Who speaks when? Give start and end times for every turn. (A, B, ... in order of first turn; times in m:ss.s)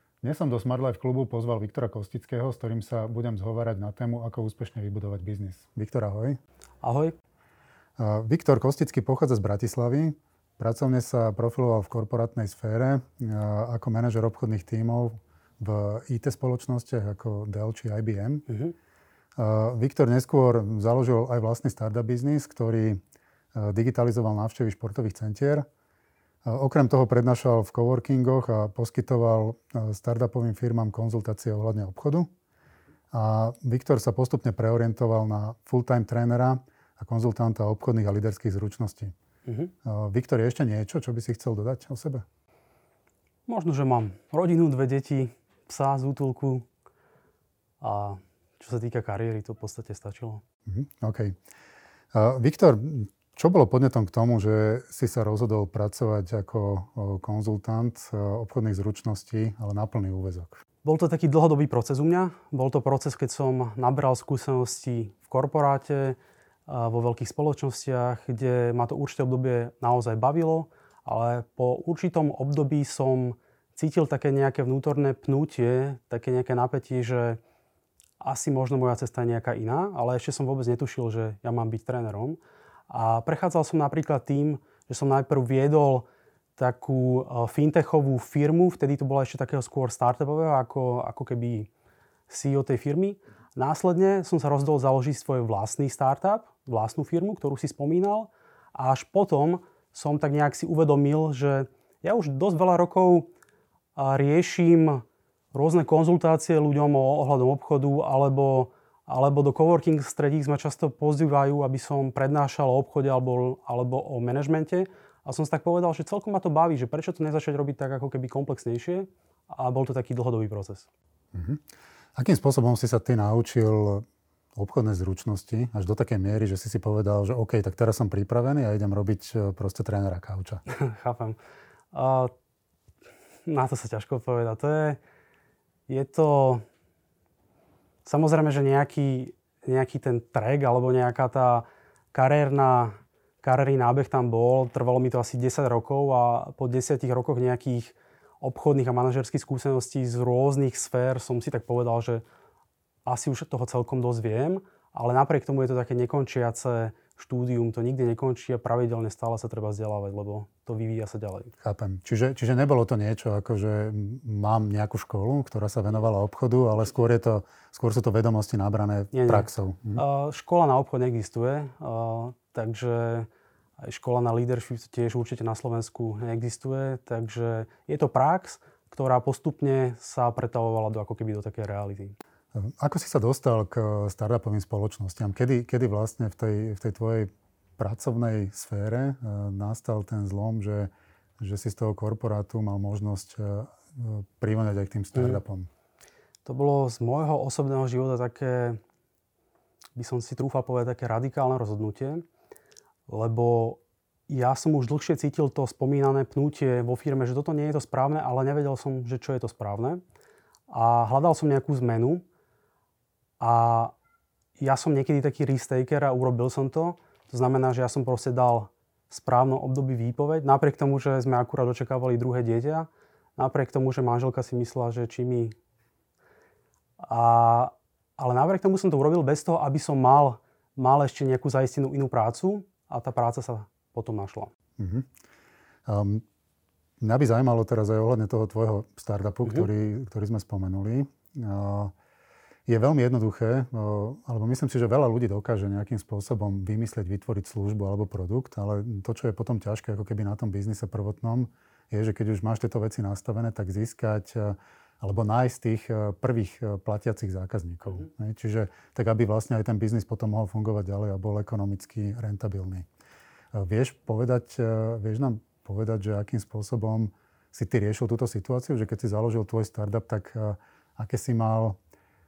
0:00.2-0:06.4 A
0:06.8-0:07.2 B
0:08.0-0:18.5 A
0:18.5-0:18.7 B
0:19.4-0:23.0 A
0:23.5-0:25.7 A
0:26.4-0:32.3 A
0:33.1-0:39.1 A
0:39.5-0:39.7 B
0:39.8-0:42.2 A
0:43.5-0:46.6 B
0:47.8-0:50.4 B
0:50.7-0:51.4 A
0:52.1-1:00.6 A
1:00.8-1:17.4 B
1:18.2-1:22.4 B
1:22.9-1:31.7 B
1:32.3-1:43.3 B
1:44.0-2:00.9 B
2:01.3-2:01.6 A
2:02.2-2:04.0 A
2:04.6-2:10.6 A
2:10.7-2:11.4 B
2:11.9-2:12.3 B
2:13.5-2:15.0 B
2:15.9-2:16.6 B
2:18.0-2:32.2 B
2:33.0-2:41.5 B
2:41.6-2:50.0 A
2:49.1-2:53.3 B
2:53.8-3:02.2 B
3:02.5-3:15.7 A
3:15.2-3:15.4 B
3:16.4-3:18.8 B
3:20.0-3:22.2 B
3:23.1-3:30.0 B
3:30.7-3:32.2 B
3:33.4-3:33.9 B
3:34.6-3:45.5 B
3:47.0-3:54.5 B
3:54.8-3:55.1 A
3:55.9-3:56.2 A
3:57.0-4:01.9 A
4:02.7-4:22.9 A
4:23.5-4:31.8 A